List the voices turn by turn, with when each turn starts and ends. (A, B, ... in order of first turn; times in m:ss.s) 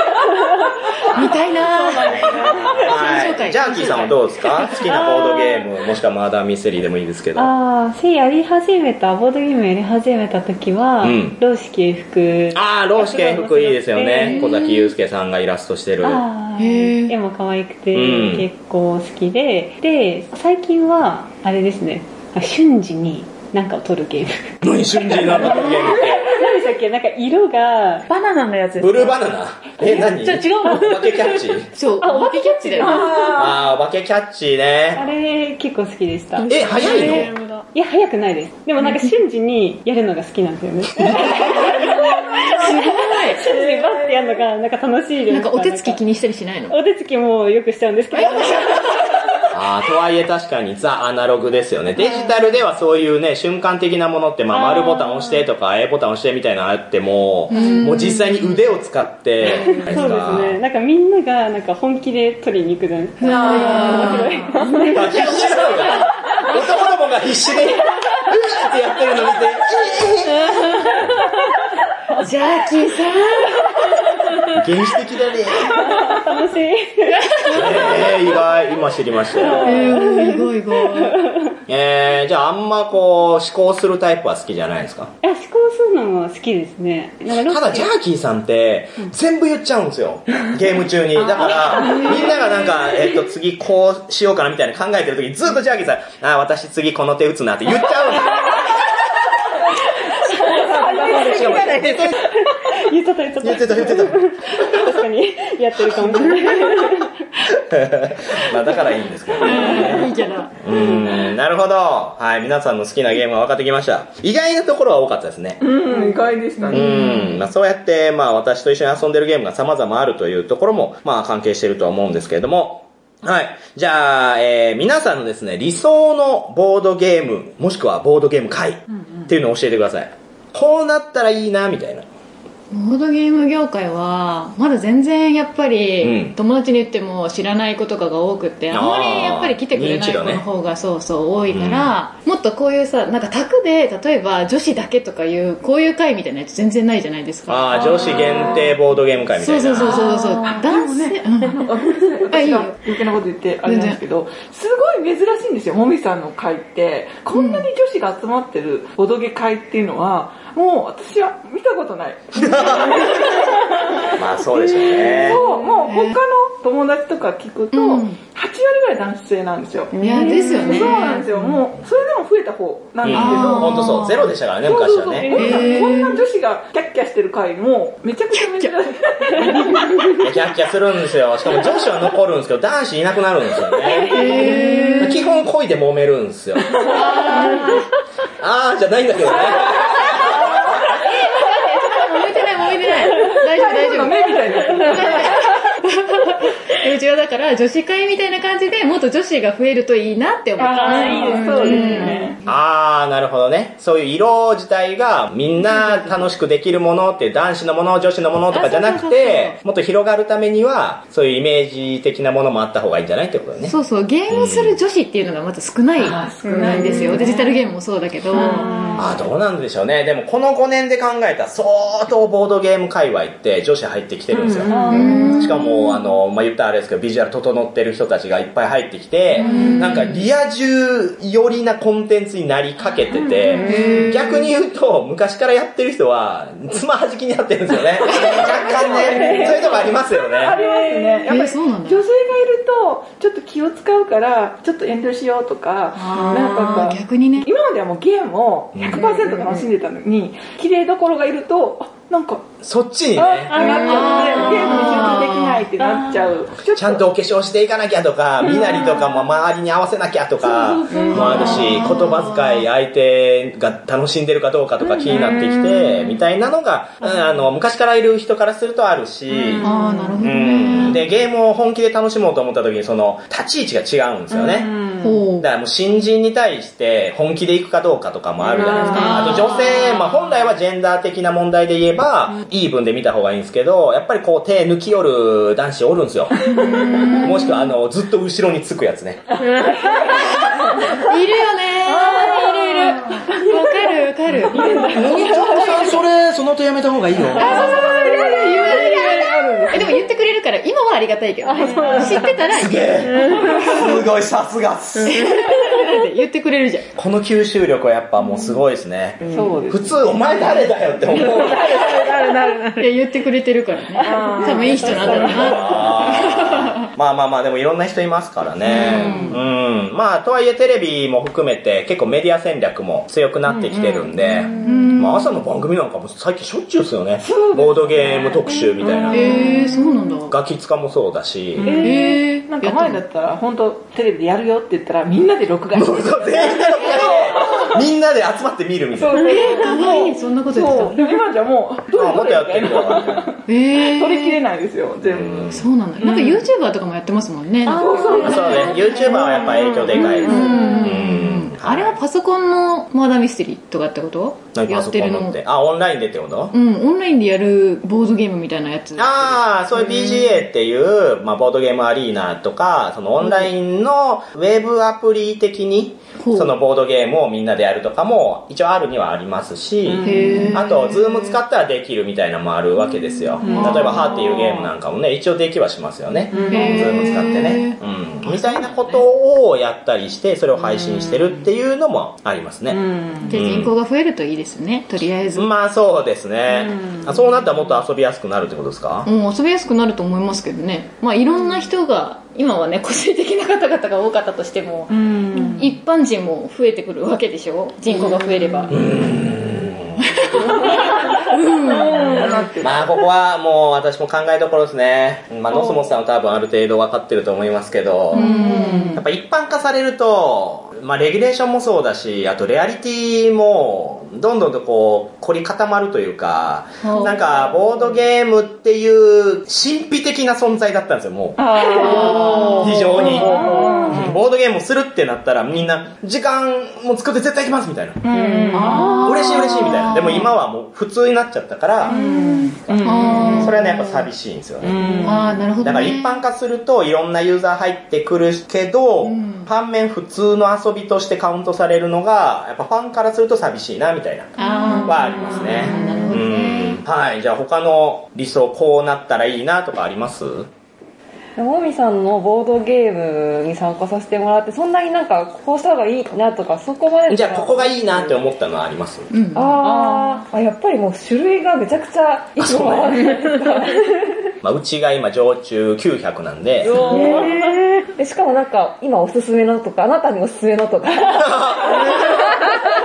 0:01.1-0:04.8 A
0:02.1-0:07.5 B
0:04.7-0:05.6 C
0:07.3-0:14.6 C
0:11.0-0:11.4 B
0:12.5-0:16.2 B
0:14.2-0:14.8 A
0:16.0-0:28.1 C
0:16.6-0:17.1 A
0:17.9-0:18.4 B
0:24.6-0:26.3 B
0:28.1-0:29.2 D
0:28.8-0:31.7 B
0:29.8-0:31.6 D
0:31.7-0:33.4 A
0:32.2-0:33.2 D
0:32.8-0:33.5 E
0:33.3-0:35.0 B
0:34.9-0:46.0 C
0:36.5-0:37.3 B
0:36.7-0:37.4 A
0:41.3-0:43.5 A
0:41.4-0:44.4 E
0:45.3-0:46.8 A
0:46.7-0:49.2 C
0:48.1-0:49.1 A
0:49.5-1:00.6 B
0:52.0-0:52.3 A
0:54.5-0:55.5 C
0:57.5-0:58.6 A
0:59.4-0:59.8 A
0:59.5-1:05.0 C
1:03.2-1:06.6 A
1:03.3-1:04.2 E
1:04.9-1:10.6 B
1:10.4-1:11.1 A
1:12.1-1:14.6 A
1:14.5-1:15.8 B
1:15.8-1:18.1 C
1:17.2-1:18.1 A
1:17.5-1:19.8 B
1:19.3-1:21.6 C
1:19.6-1:21.2 A
1:21.7-1:25.1 B
1:25.2-1:27.9 C
1:27.4-1:38.6 B
1:31.2-1:32.4 E
1:31.8-1:32.4 A
1:40.2-1:42.0 E
1:40.8-1:47.2 C
1:41.0-1:41.9 D
1:41.2-1:42.2 B
1:43.4-1:44.9 B
1:47.6-1:55.6 B
1:49.4-1:50.6 A
1:55.6-1:56.9 E
1:56.6-1:57.4 A
1:56.7-2:12.1 B
2:08.9-2:09.3 E
2:12.7-2:28.7 A
2:16.0-2:16.4 B
2:18.7-2:20.4 B
2:21.5-2:21.9 B
2:27.5-2:30.1 B
2:27.8-2:28.7 E
2:29.4-2:31.7 A
2:29.8-2:44.1 E
2:32.3-2:32.8 A
2:33.6-2:34.0 A
2:37.3-2:37.7 A
2:42.3-2:43.1 B
2:42.4-2:43.2 A
2:44.1-2:45.4 B
2:45.0-2:54.0 E
2:45.4-2:46.2 A
2:47.7-2:48.2 A
2:50.0-2:51.6 A
2:53.0-2:55.5 B
2:53.1-2:54.3 A
2:54.6-3:00.3 E
2:55.2-2:55.6 C
2:55.3-2:56.2 A
2:58.4-2:58.7 A
3:00.2-3:06.8 B
3:03.9-3:05.4 A
3:04.0-3:04.8 E
3:06.7-3:07.7 E
3:06.8-3:07.9 A
3:08.4-3:10.7 B
3:10.1-3:22.4 A
3:13.2-3:15.5 E
3:20.6-3:22.4 E
3:20.6-3:22.3 C
3:22.4-3:33.7 B
3:25.6-3:26.2 A
3:28.5-3:29.6 A
3:33.6-3:39.0 A
3:34.3-3:34.8 B
3:36.0-3:37.6 E
3:36.5-3:37.2 D
3:38.3-3:39.2 E
3:39.0-4:00.6 B
3:44.3-3:45.5 E
3:44.7-3:45.4 F
3:44.9-3:46.0 A
3:49.4-3:50.1 E
3:49.4-3:50.1 A
3:53.2-3:54.1 E
3:53.5-3:54.5 A
3:58.0-4:12.4 E
3:59.1-3:59.8 C
4:00.5-4:01.3 C
4:01.3-4:02.0 A
4:05.9-4:07.5 A
4:08.7-4:09.1 B
4:09.0-4:09.6 A
4:12.6-4:13.6 B
4:13.1-4:17.0 E
4:13.5-4:15.2 C
4:13.5-4:15.6 A
4:15.8-4:16.3 C
4:16.7-4:29.7 B
4:18.4-4:19.1 E
4:20.4-4:21.9 E
4:20.9-4:22.6 A
4:24.8-4:25.8 E
4:29.3-4:30.2 E
4:29.6-4:31.0 A
4:30.2-4:34.8 B
4:34.3-4:35.2 E
4:35.0-4:35.4 A
4:35.4-4:46.4 B
4:38.4-4:40.3 E
4:38.8-4:39.7 A
4:46.4-4:47.3 E
4:46.5-4:47.6 A
4:47.2-4:49.3 B
4:49.4-4:51.0 E
4:49.6-4:56.0 A
4:51.9-4:55.9 E
4:54.9-4:57.8 B
4:57.3-5:00.0 E
4:57.3-5:03.8 A
5:01.4-5:02.4 E
5:01.6-5:02.1 D
5:02.5-5:05.4 B
5:03.1-5:03.9 E
5:03.1-5:03.8 D
5:05.0-5:05.4 D
5:05.0-5:06.9 A
5:07.0-5:12.1 B
5:09.2-5:10.1 E
5:11.1-5:12.1 E
5:11.2-5:12.9 D
5:12.8-5:16.9 A
5:14.0-5:15.9 E
5:14.7-5:29.3 B
5:18.6-5:19.4 A
5:18.7-5:19.4 E
5:23.4-5:24.7 E
5:24.6-5:25.4 A
5:27.2-5:30.0 E
5:29.1-5:30.3 A
5:30.3-5:31.8 B
5:31.6-5:37.8 E
5:31.6-5:33.0 A
5:35.7-5:39.3 B
5:39.0-5:46.5 E
5:39.1-5:41.0 A
5:41.9-5:43.3 B
5:43.5-5:44.4 A
5:45.0-5:45.7 B
5:45.5-5:55.4 A
5:47.6-5:51.1 E
5:47.9-5:49.4 F
5:48.2-5:52.0 B
5:54.5-5:56.5 B
5:56.5-6:00.2 A
5:59.0-6:23.7 B
6:06.2-6:06.6 A
6:09.8-6:10.6 E
6:10.0-6:11.3 A
6:13.4-6:14.3 A
6:13.4-6:14.7 E
6:16.3-6:17.3 E
6:16.3-6:18.8 A
6:20.7-6:21.3 E
6:22.7-6:23.4 E
6:23.2-6:25.5 A
6:25.4-6:29.1 B
6:26.5-6:27.4 E
6:29.0-6:38.8 A
6:34.9-6:35.7 E
6:37.9-6:38.6 E
6:38.7-6:40.1 B
6:40.0-6:42.4 A
6:40.4-6:42.9 E
6:42.6-6:48.3 B
6:45.5-6:45.8 E
6:48.1-6:48.9 E
6:48.1-6:49.0 A
6:48.9-7:08.0 B
6:56.8-6:57.2 A
7:01.4-7:04.2 E
7:01.8-7:02.7 A
7:03.3-7:03.8 A
7:08.0-7:09.8 E
7:08.5-7:10.3 A
7:09.0-7:12.0 B
7:11.8-7:14.0 E
7:11.9-7:13.7 A
7:12.7-7:15.0 B
7:14.6-7:15.4 E
7:14.8-7:16.2 A
7:15.6-7:30.5 B
7:19.0-7:19.5 A
7:24.4-7:26.8 A
7:31.4-7:38.2 F
7:37.1-7:39.1 B
7:39.1-7:39.9 A
7:39.3-7:44.1 F
7:42.4-7:43.2 B
7:44.4-7:46.8 B
7:46.6-7:52.6 F
7:46.7-7:47.3 E
7:46.9-7:47.3 D
7:51.1-7:52.3 B